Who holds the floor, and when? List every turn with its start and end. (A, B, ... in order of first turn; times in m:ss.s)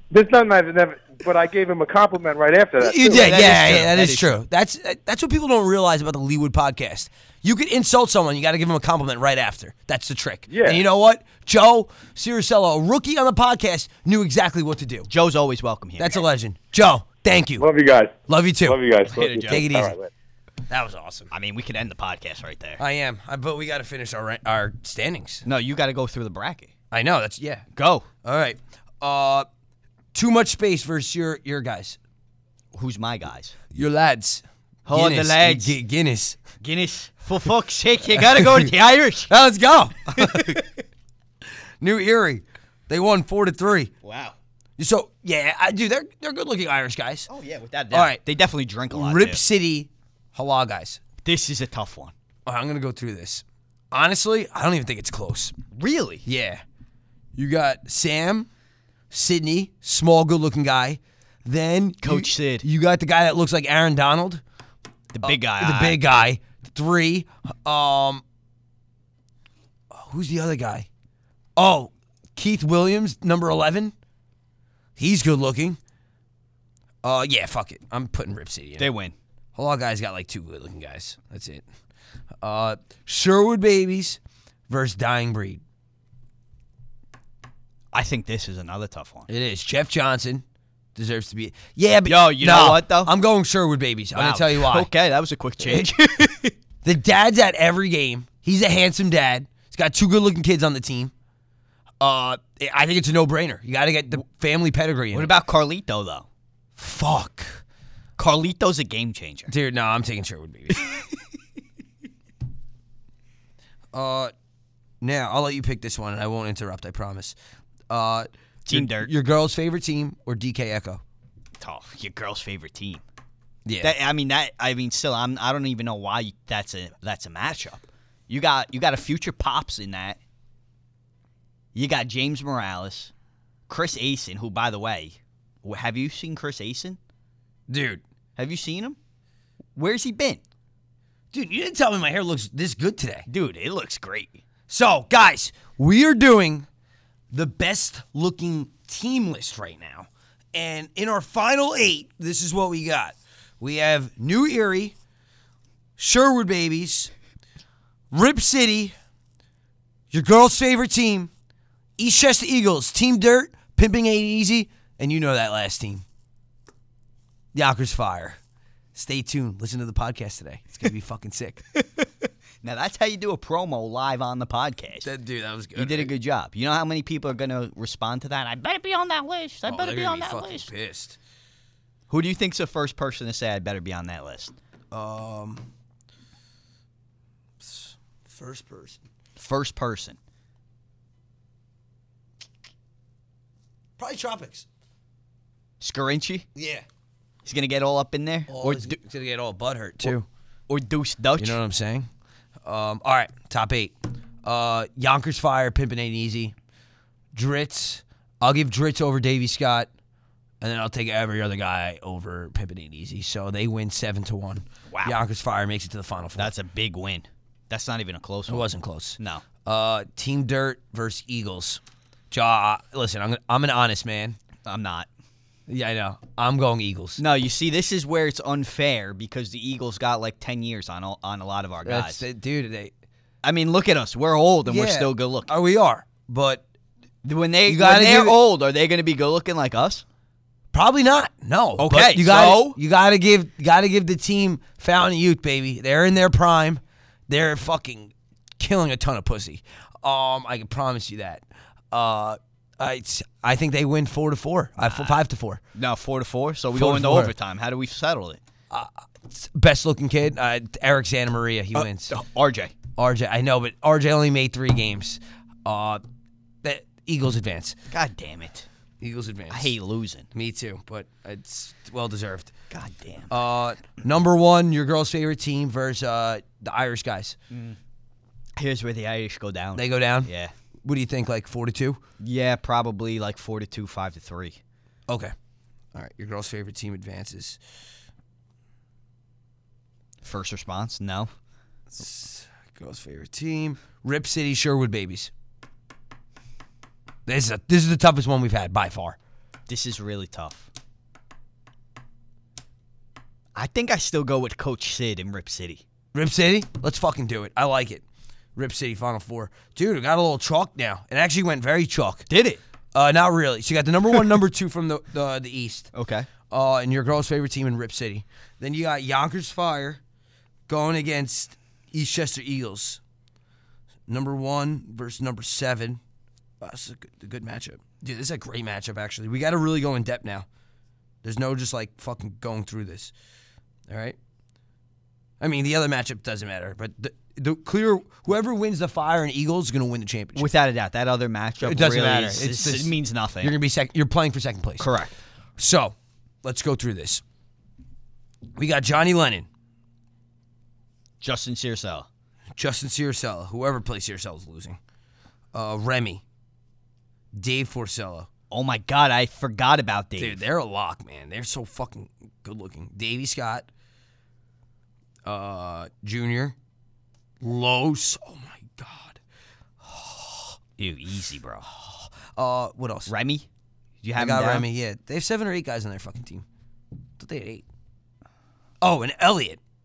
0:00.1-0:03.5 A
0:02.8-0:15.1 B
0:03.1-0:04.4 C
0:10.5-0:10.8 A
0:15.1-0:16.2 C
0:16.0-0:17.6 B
0:17.6-0:20.1 A
0:18.3-0:18.8 B
0:19.1-0:19.6 C
0:19.4-0:19.9 B
0:20.7-0:21.3 B
0:21.3-0:22.8 C
0:22.8-0:25.4 B
0:25.4-0:26.7 C
0:26.9-0:27.6 B
0:27.7-0:28.0 C
0:28.2-0:29.4 B
0:30.1-0:32.0 B
0:32.7-0:33.6 C
0:33.7-0:36.4 B
0:34.8-0:35.7 C
0:36.6-0:39.3 C
0:38.1-0:38.7 B
0:39.3-0:40.6 B
0:40.1-0:40.7 C
0:41.8-0:43.9 B
0:44.0-0:44.4 C
0:44.8-0:47.3 B
0:47.3-0:49.4 C
0:47.9-0:48.2 B
0:48.9-0:51.0 B
0:51.2-0:52.1 C
0:52.4-0:55.5 B
0:55.7-0:56.2 C
0:56.2-0:56.6 B
0:57.3-0:58.5 B
0:59.1-1:04.4 B
1:02.0-1:02.6 C
1:05.1-1:06.0 C
1:05.2-1:08.2 B
1:09.9-1:10.9 B
1:11.6-1:13.9 B
1:15.0-1:15.8 B
1:17.0-1:18.9 B
1:18.8-1:19.1 C
1:19.5-1:21.6 B
1:22.4-1:25.6 B
1:27.9-1:29.3 C
1:29.3-1:30.4 B
1:31.0-1:34.9 B
1:32.0-1:33.1 C
1:34.1-1:36.5 C
1:35.6-1:35.9 B
1:36.8-1:41.1 B
1:42.0-1:45.3 B
1:45.1-1:46.2 C
1:46.8-1:47.6 B
1:48.2-1:49.5 C
1:49.5-1:50.8 B
1:53.9-1:54.3 B
1:55.0-1:57.4 B
1:57.9-2:01.0 B
1:58.6-1:59.1 C
2:01.6-2:03.0 C
2:03.6-2:04.0 B
2:03.8-2:10.2 C
2:11.7-2:13.1 C
2:13.7-2:17.0 C
2:17.7-2:18.0 B
2:18.4-2:19.0 C
2:19.8-2:20.4 C
2:21.3-2:23.2 B
2:23.3-2:24.4 C
2:24.7-2:26.7 B
2:27.3-2:34.9 B
2:36.0-2:37.1 B
2:38.1-2:38.9 B
2:40.1-2:41.3 B
2:42.0-2:46.0 B
2:47.5-2:48.4 B
2:48.9-2:51.6 B
2:51.8-2:52.1 C
2:52.6-2:55.1 C
2:55.0-2:56.1 B
2:55.7-3:00.7 C
2:59.7-3:01.2 B
3:02.1-3:04.5 C
3:04.9-3:05.7 B
3:07.6-3:09.0 B
3:09.4-3:10.2 C
3:14.0-3:14.7 B
3:15.8-3:16.5 C
3:16.5-3:16.8 B
3:17.4-3:19.0 C
3:18.5-3:20.2 B
3:20.0-3:21.6 C
3:21.4-3:22.1 B
3:22.6-3:26.5 B
3:27.3-3:29.9 B
3:30.6-3:36.5 B
3:34.9-3:35.2 C
3:36.4-3:39.4 C
3:38.5-3:44.4 B
3:44.6-3:45.1 C
3:45.7-3:47.2 B
3:47.2-3:52.2 C
3:51.8-3:52.9 B
3:53.4-3:55.5 C
3:54.6-3:56.6 B
3:57.2-4:00.0 C
3:57.7-3:58.4 B
4:00.7-4:15.6 B
4:01.8-4:02.8 C
4:14.8-4:15.2 C
4:15.7-4:18.4 C
4:16.7-4:17.3 B
4:18.7-4:22.1 B
4:21.7-4:22.7 C
4:23.0-4:26.0 B
4:26.6-4:27.8 B
4:27.9-4:28.7 C
4:29.0-4:29.7 B
4:29.5-4:30.3 C
4:30.3-4:32.5 B
4:32.7-4:33.3 C
4:33.3-4:37.4 B
4:37.5-4:37.8 C
4:38.6-4:40.5 C
4:39.8-4:40.3 B
4:40.8-4:42.0 B
4:42.2-4:44.6 C
4:45.1-4:45.3 B
4:45.9-4:47.6 B
4:50.2-4:51.3 C
4:51.9-4:55.3 B
4:57.2-4:59.2 B
4:59.7-5:00.7 C
5:03.6-5:05.8 C
5:06.1-5:08.0 B
5:08.6-5:12.3 B
5:12.3-5:12.6 C
5:12.9-5:15.9 B
5:15.9-5:16.3 C
5:16.5-5:20.0 B
5:20.7-5:23.0 B
5:24.1-5:26.0 B
5:26.6-5:30.4 B
5:31.2-5:33.1 B
5:33.9-5:34.2 B
5:35.4-5:40.5 B
5:40.4-5:43.5 C
5:41.6-5:44.9 B
5:44.8-5:45.1 C
5:45.6-5:47.2 B
5:48.6-5:49.5 B
5:51.2-5:52.1 C
5:52.6-5:54.8 B
5:55.5-5:56.2 B
5:57.3-5:58.3 B
5:58.5-6:00.4 C
6:00.2-6:03.7 B
6:05.2-6:06.5 B
6:07.4-6:09.2 B
6:09.8-6:10.6 B
6:10.8-6:11.6 C
6:11.7-6:13.1 B
6:13.1-6:13.5 C
6:14.0-6:14.7 C
6:14.2-6:16.4 B
6:17.2-6:17.6 B
6:18.8-6:19.6 B